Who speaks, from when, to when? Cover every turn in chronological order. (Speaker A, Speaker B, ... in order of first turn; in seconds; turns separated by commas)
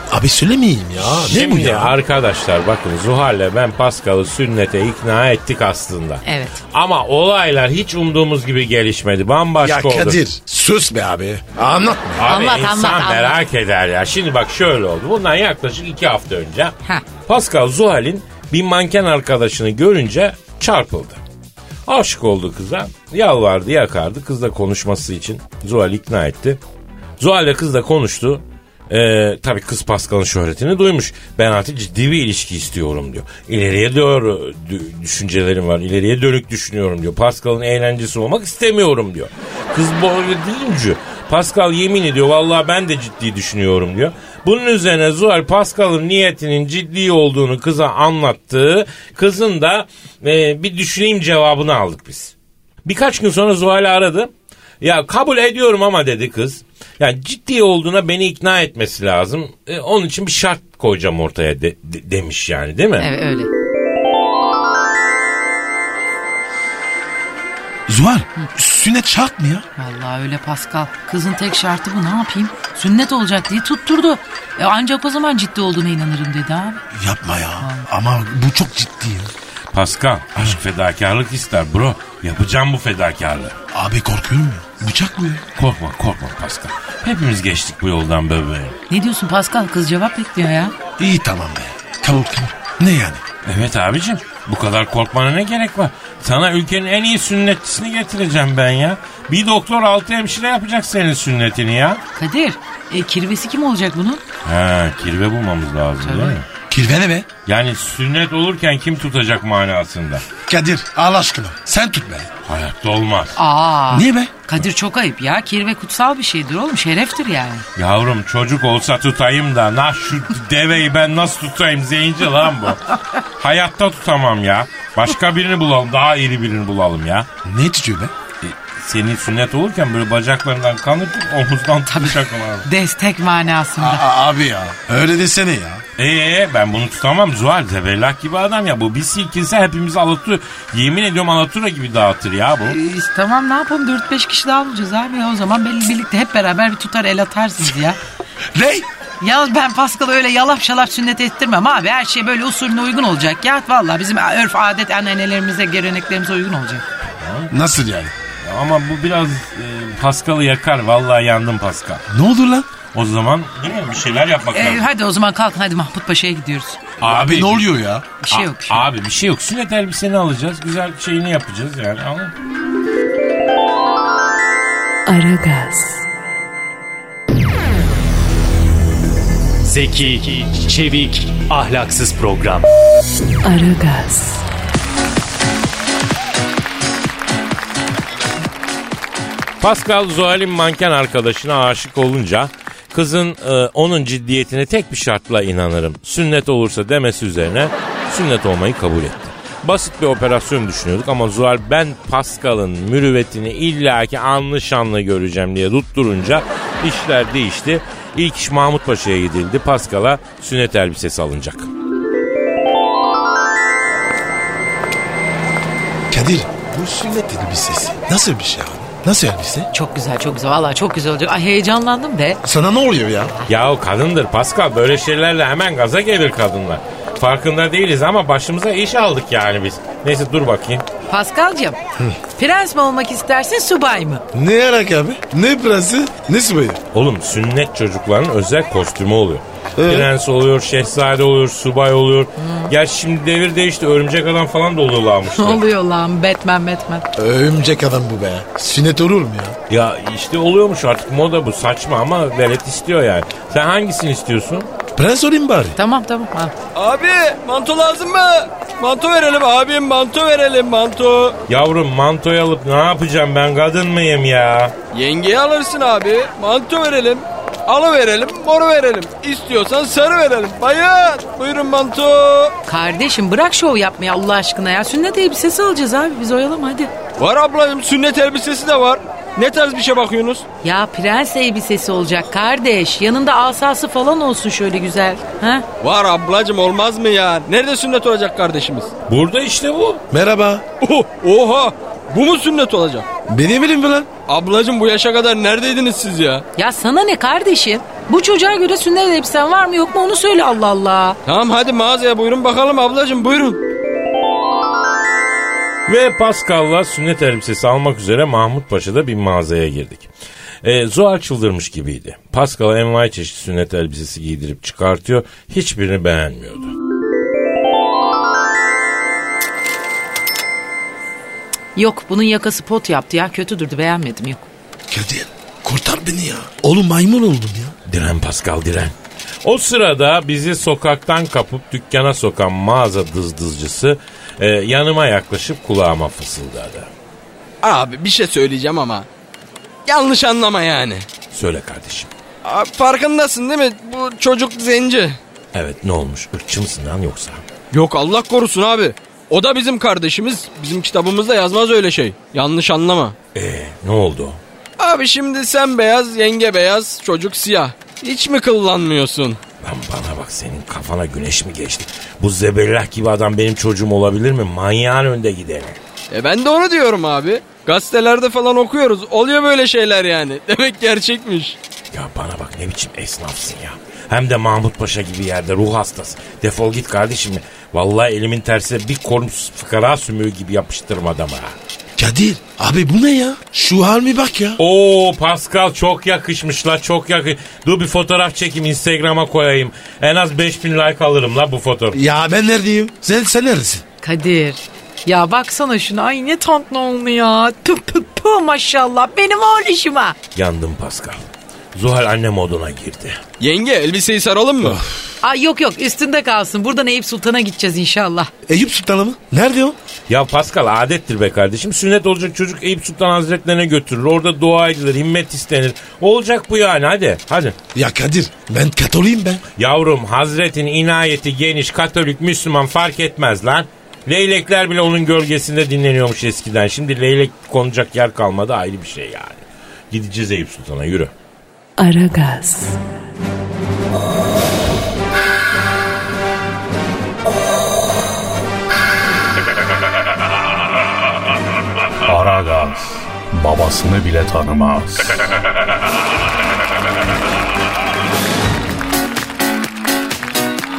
Speaker A: 0.1-1.9, Speaker B: 1.0-10.2, Speaker C: 6.2-6.6, Speaker A: 9.6-12.3, Speaker B: 12.2-16.7, Speaker C: 12.2-13.4, Speaker B: 17.2-21.2, Speaker B: 21.9-26.6, Speaker B: 27.2-52.3, Speaker B: 52.8-54.3, Speaker B: 54.8-63.1, Speaker C: 63.0-63.5, Speaker A: 67.9-69.6, Speaker C: 69.8-76.8, Speaker A: 76.9-79.3, Speaker B: 79.7-83.5, Speaker A: 83.7-85.5, Speaker B: 85.5-88.8, Speaker C: 88.9-90.7, Speaker A: 91.0-93.2, Speaker B: 93.4-102.0, Speaker C: 102.2-104.2, Speaker B: 104.4-106.5, Speaker C: 106.0-106.4, Speaker A: 106.7-107.3, Speaker B: 107.5-110.3, Speaker A: 110.5-112.3, Speaker B: 112.4-113.3, Speaker C: 113.3-117.6, Speaker A: 113.9-114.3, Speaker B: 117.8-122.8, Speaker B: 123.4-127.3, Speaker A: 127.4-128.1, Speaker B: 128.4-132.7, Speaker C: 131.9-134.0, Speaker A: 133.8-135.8, Speaker B: 136.0-142.8, Speaker C: 142.7-148.0, Speaker A: 148.5-148.9, Speaker C: 149.2-156.8, Speaker B: 157.2-157.5, Speaker A: 157.5-158.1, Speaker B: 158.4-162.0, Speaker A: 162.1-162.7, Speaker B: 162.9-164.9, Speaker C: 164.5-166.8, Speaker B: 167.0-167.7, Speaker A: 167.0-168.0, Speaker C: 168.2-168.8, Speaker B: 168.3-172.3, Speaker D: 175.1-176.0, Speaker E: 179.6-182.7, Speaker D: 183.4-184.4, Speaker B: 189.6-211.7, Speaker A: 216.1-219.7, Speaker C: 219.7-222.4, Speaker A: 222.4-223.3, Speaker B: 223.5-230.8, Speaker C: 231.1-231.8, Speaker C: 232.4-234.2, Speaker A: 234.3-236.8, Speaker B: 236.9-245.6, Speaker A: 239.8-240.1, Speaker C: 242.4-242.7, Speaker C: 245.3-247.1, Speaker A: 247.2-249.6, Speaker B: 249.7-254.7, Speaker A: 254.9-255.8, Speaker C: 255.8-256.5, Speaker F: 256.7-261.4, Speaker B: 261.5-264.7, Speaker F: 264.9-272.5, Speaker C: 272.7-276.9, Speaker F: 277.2-280.4, Speaker C: 280.6-285.6, Speaker F: 285.8-288.9, Speaker B: 289.1-290.0, Speaker A: 290.1-290.6, Speaker F: 290.8-293.1, Speaker A: 293.3-294.1, Speaker F: 294.3-296.4, Speaker C: 296.6-301.2, Speaker F: 301.2-303.6, Speaker B: 305.9-310.1, Speaker B: 310.6-316.7, Speaker C: 321.8-324.5, Speaker A: 324.9-327.7, Speaker B: 327.9-336.9, Speaker F: 337.6-339.1, Speaker F: 339.9-341.1, Speaker B: 341.3-342.1, Speaker F: 342.4-345.2, Speaker B: 345.5-347.4, Speaker F: 347.7-353.1, Speaker B: 353.3-354.4, Speaker F: 354.8-359.4, Speaker B: 359.6-365.8, Speaker F: 366.1-371.6, Speaker B: 371.9-381.5, Speaker A: 382.0-384.6, Speaker B: 384.6-392.0, Speaker A: 391.9-393.8, Speaker C: 394.0-400.1, Speaker B: 400.3-403.2, Speaker F: 403.4-404.8, Speaker A: 404.6-405.0, Speaker C: 405.2-408.3, Speaker A: 408.5-409.8, Speaker B: 410.1-417.6, Speaker A: 417.7-419.4, Speaker B: 419.6-431.1, Speaker D: 431.8-432.8, Speaker G: 442.0-445.2